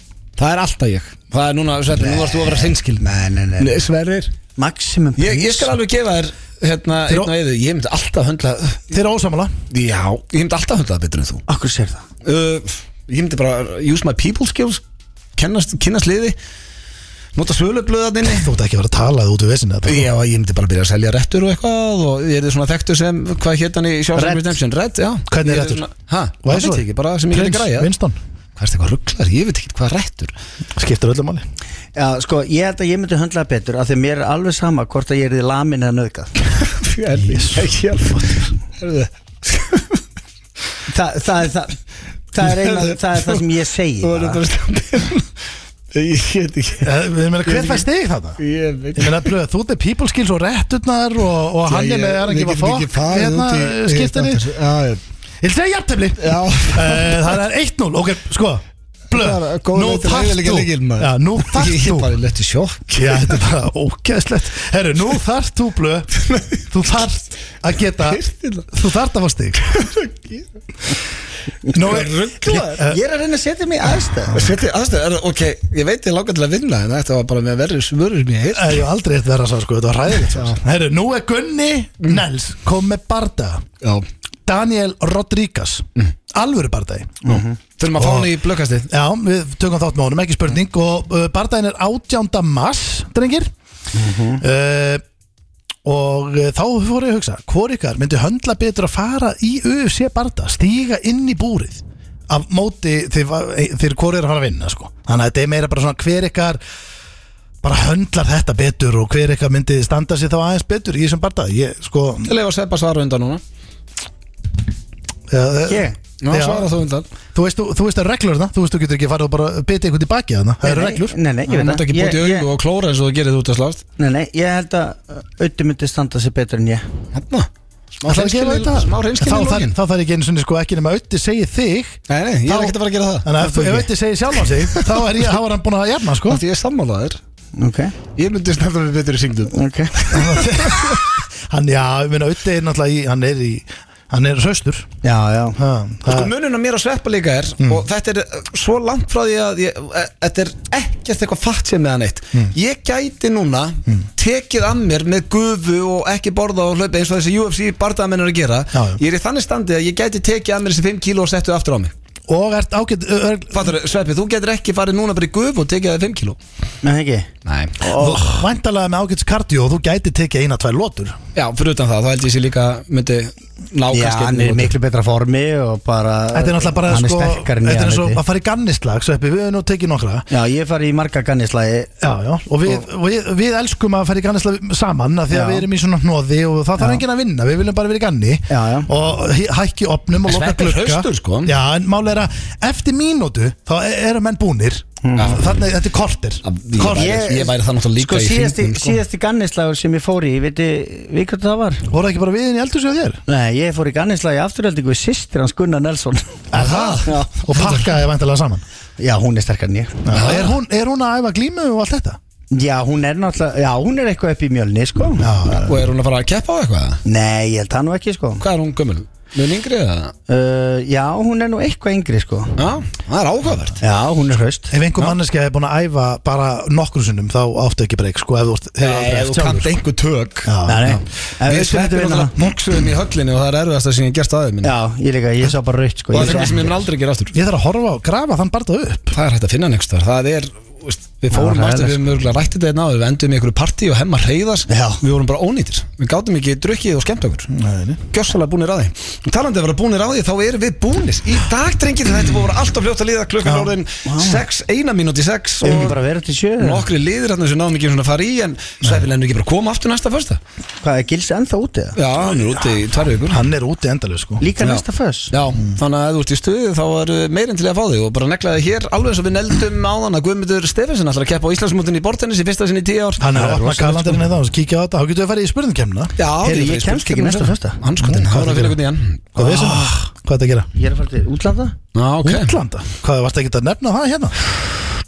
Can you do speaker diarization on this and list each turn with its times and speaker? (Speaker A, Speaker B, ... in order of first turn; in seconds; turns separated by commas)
Speaker A: 0.4-3.0, Speaker B: 2.0-3.8, Speaker A: 3.6-4.3, Speaker B: 4.5-5.7, Speaker A: 5.2-8.9, Speaker C: 8.9-9.5, Speaker A: 9.7-11.4, Speaker B: 11.5-12.0, Speaker A: 12.2-14.8, Speaker A: 15.4-16.4, Speaker A: 17.4-18.5, Speaker C: 18.2-20.1, Speaker A: 19.8-27.9, Speaker B: 24.1-24.6, Speaker C: 25.3-25.8, Speaker C: 26.4-28.2, Speaker A: 28.6-30.3, Speaker C: 30.8-31.4, Speaker B: 31.9-36.3, Speaker A: 36.7-40.0, Speaker C: 37.2-38.4, Speaker B: 40.9-41.8, Speaker B: 42.3-44.4, Speaker A: 42.4-43.4, Speaker A: 44.0-45.3, Speaker A: 45.9-46.9, Speaker C: 46.8-48.4, Speaker A: 47.5-47.9, Speaker A: 48.4-49.3, Speaker C: 48.9-54.5, Speaker A: 51.7-55.0, Speaker C: 55.4-62.2, Speaker A: 56.2-57.2, Speaker A: 59.1-63.4, Speaker C: 62.9-66.2, Speaker A: 66.2-66.6, Speaker C: 66.7-69.8, Speaker A: 68.0-68.7, Speaker A: 69.6-70.5, Speaker C: 71.7-73.0, Speaker A: 71.7-72.8, Speaker B: 72.8-74.5, Speaker A: 74.3-78.8, Speaker C: 78.5-83.6, Speaker A: 80.3-80.6, Speaker C: 84.5-87.3, Speaker B: 87.2-87.5, Speaker A: 87.8-88.9, Speaker C: 87.9-88.3, Speaker C: 88.9-93.5, Speaker B: 93.9-94.4, Speaker C: 94.4-95.0, Speaker C: 95.8-106.6, Speaker C: 107.6-112.3, Speaker A: 112.2-113.4, Speaker C: 115.3-116.7, Speaker B: 115.7-116.0, Speaker A: 116.2-117.0, Speaker C: 117.3-121.2, Speaker B: 120.6-122.5, Speaker A: 121.5-123.8, Speaker B: 124.0-126.8, Speaker A: 127.1-127.5, Speaker A: 128.0-129.8, Speaker C: 128.0-136.4, Speaker A: 132.1-133.3, Speaker B: 133.4-133.9, Speaker A: 134.7-135.2, Speaker A: 136.2-137.2, Speaker B: 137.6-137.9, Speaker A: 138.2-141.0, Speaker B: 139.5-140.0, Speaker C: 140.1-144.9, Speaker B: 145.0-145.6, Speaker C: 145.6-146.3, Speaker A: 146.1-161.9, Speaker C: 147.6-147.8, Speaker C: 158.7-159.0, Speaker C: 162.3-163.7, Speaker A: 163.5-166.4, Speaker B: 166.8-167.3, Speaker A: 167.4-168.4, Speaker C: 167.8-171.2, Speaker A: 171.3-174.7, Speaker B: 173.9-178.2, Speaker C: 176.3-180.2, Speaker B: 180.3-181.9, Speaker C: 182.0-197.2, Speaker B: 185.3-185.7, Speaker B: 188.5-188.9, Speaker A: 190.3-191.5, Speaker B: 195.0-195.4, Speaker A: 195.2-195.4, Speaker A: 196.4-199.0, Speaker B: 196.8-201.8, Speaker C: 201.9-203.2, Speaker B: 203.3-206.4, Speaker C: 206.5-208.6, Speaker A: 206.5-207.9, Speaker B: 209.0-210.1, Speaker C: 210.1-212.2, Speaker A: 210.1-210.5, Speaker B: 212.5-215.3, Speaker C: 215.2-215.8, Speaker A: 215.7-217.0, Speaker B: 217.0-218.4, Speaker A: 218.4-220.1, Speaker B: 220.3-222.6, Speaker A: 222.6-223.8, Speaker B: 223.8-224.7, Speaker C: 224.7-229.8, Speaker A: 228.8-234.7, Speaker C: 230.4-230.9, Speaker B: 230.6-232.3, Speaker B: 234.6-236.8, Speaker A: 236.1-237.4, Speaker C: 237.3-239.1, Speaker A: 239.1-247.5, Speaker B: 241.3-242.0, Speaker B: 244.7-245.0, Speaker C: 247.5-248.0, Speaker A: 248.1-256.0, Speaker C: 253.4-253.7, Speaker B: 254.1-254.4, Speaker B: 255.6-256.9, Speaker A: 256.6-260.4, Speaker B: 260.8-262.0, Speaker A: 261.9-263.4, Speaker C: 263.3-264.4, Speaker B: 264.4-265.3, Speaker A: 264.6-274.2, Speaker C: 273.2-276.1, Speaker A: 276.2-279.8, Speaker B: 276.4-277.8, Speaker C: 278.0-278.8, Speaker C: 279.4-280.7, Speaker B: 279.5-279.9, Speaker B: 280.7-281.8, Speaker A: 281.9-282.6, Speaker C: 282.2-284.3